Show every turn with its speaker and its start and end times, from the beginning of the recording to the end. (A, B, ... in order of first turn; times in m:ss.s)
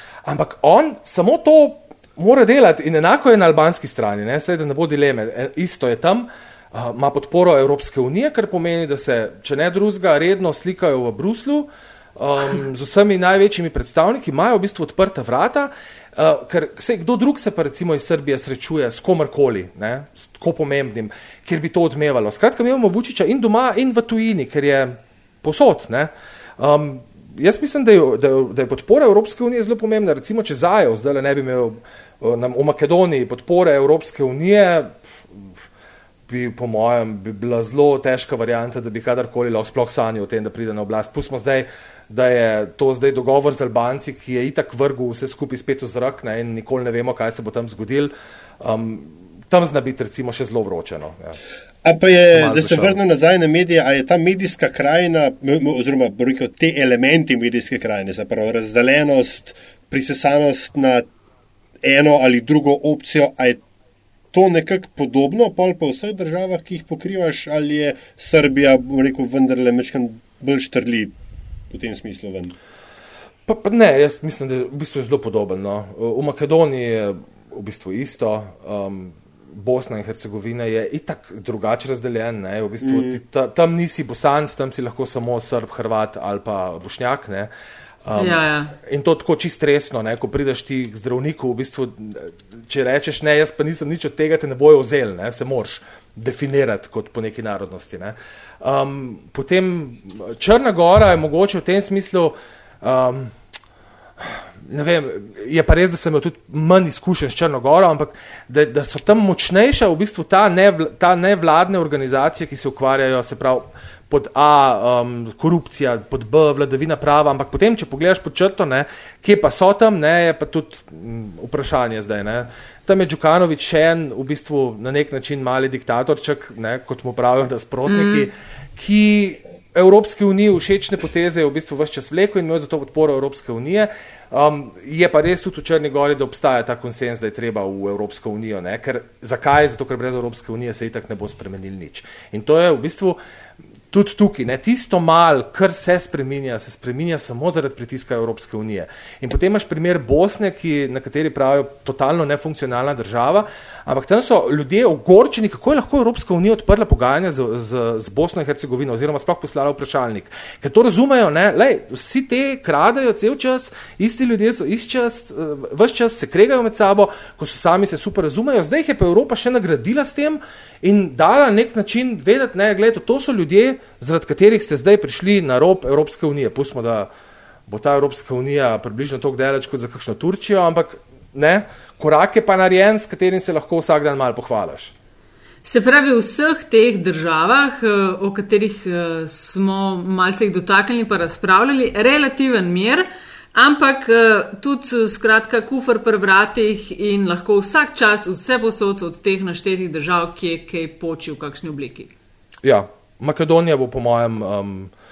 0:00.2-0:35.0 A
0:36.3-0:51.4 A
0:51.8-1:01.0 B
0:52.3-0:53.0 A
1:01.8-1:03.6 B
1:04.3-1:11.1 B
1:11.7-1:12.5 B
1:13.5-1:27.5 A
1:22.8-1:23.2 B
1:28.0-1:43.3 A
1:28.2-1:28.7 C
1:44.2-2:23.2 A
2:07.9-2:08.3 C
2:23.9-2:57.1 A
2:57.7-3:04.9 A
3:05.6-3:22.1 C
3:22.6-3:24.9 A